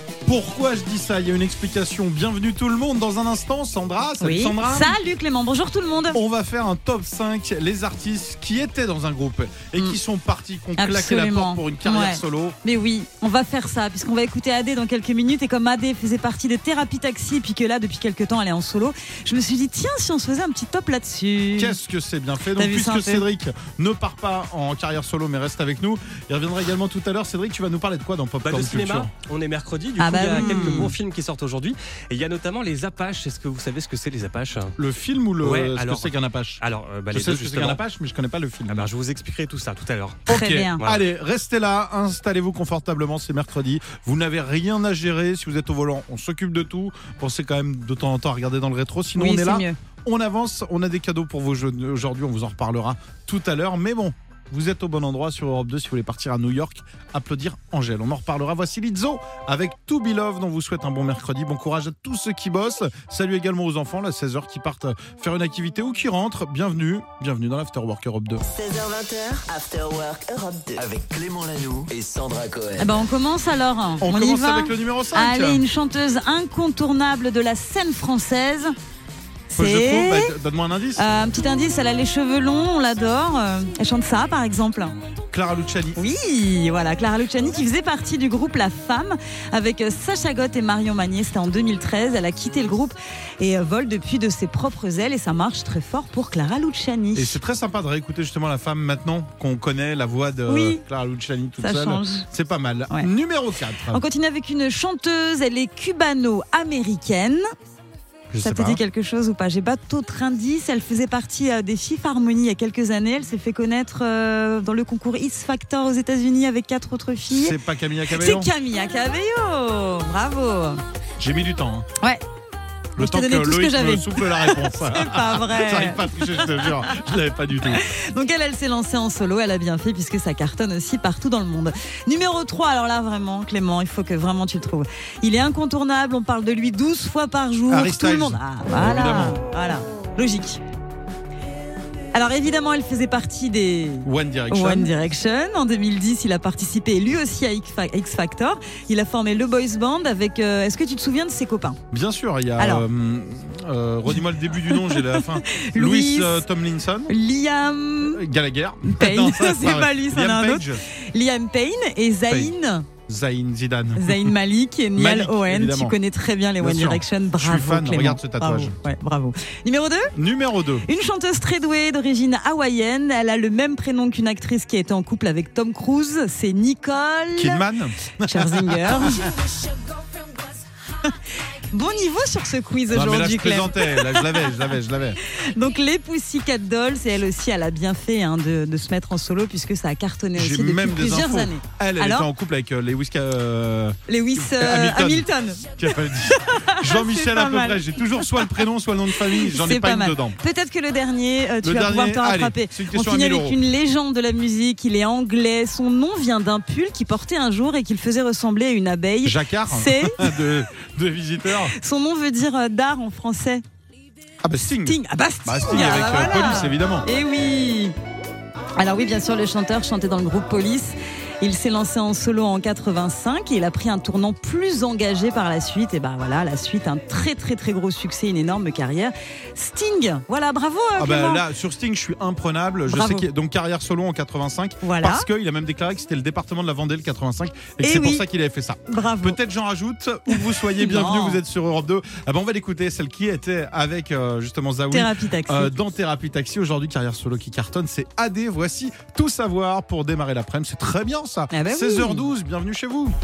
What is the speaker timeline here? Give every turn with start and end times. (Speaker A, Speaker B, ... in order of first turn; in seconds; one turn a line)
Speaker A: 0.2-4.9
Speaker B: 4.2-6.2
Speaker A: 6.1-12.6
Speaker B: 10.8-21.8
Speaker A: 21.6-29.1
Speaker B: 22.6-23.2
Speaker C: 28.4-34.7
Speaker B: 30.0-30.9
Speaker A: 30.3-30.9
Speaker A: 34.8-38.9
Speaker C: 35.4-37.8
Speaker C: 38.7-40.2
Speaker A: 40.3-68.4
Speaker B: 40.3-40.8
Speaker B: 49.2-49.8
Speaker D: 68.4-70.8
Speaker E: 70.8-73.0
Speaker B: 72.8-78.7
Speaker A: 74.0-75.6
Speaker B: 79.5-80.3
Speaker A: 79.5-81.0
Speaker B: 81.0-85.0
Speaker A: 85.3-86.0
Speaker B: 86.0-97.4
Speaker A: 97.1-104.0
Speaker B: 100.5-100.8
Speaker B: 101.6-102.3
Speaker B: 103.9-107.4
Speaker A: 108.3-108.8
Speaker B: 108.4-117.5
Speaker A: 117.3-118.5
Speaker B: 118.1-120.8
Speaker A: 121.2-121.9
Speaker A: 123.0-127.8
Speaker B: 123.0-126.8
Speaker B: 127.7-140.6
Speaker A: 137.7-139.4
Speaker B: 142.1-151.8
Speaker A: 144.0-144.9
Speaker A: 151.9-157.1
Speaker B: 152.6-152.8
Speaker B: 154.7-156.4
Speaker B: 157.1-158.2
Speaker A: 158.0-160.8
Speaker B: 158.9-162.9
Speaker A: 162.3-162.5
Speaker A: 163.1-164.3
Speaker B: 164.0-170.1
Speaker A: 164.9-166.0
Speaker A: 166.6-168.8
Speaker A: 170.1-170.8
Speaker B: 170.8-177.6
Speaker A: 177.3-179.3
Speaker B: 178.3-179.3
Speaker B: 181.0-184.5
Speaker A: 182.9-185.2
Speaker B: 185.3-192.3
Speaker A: 190.3-200.4
Speaker B: 194.1-197.8
Speaker B: 199.3-210.3
Speaker A: 201.6-203.6
Speaker A: 209.2-211.7
Speaker B: 211.7-213.6
Speaker A: 214.4-217.1
Speaker B: 214.6-217.9
Speaker B: 218.7-231.4
Speaker A: 231.0-253.2
Speaker B: 232.9-233.2
Speaker B: 234.8-235.3
Speaker B: 237.8-238.2
Speaker B: 238.9-239.4
Speaker B: 240.3-241.4
Speaker B: 244.9-245.7
Speaker B: 251.5-252.3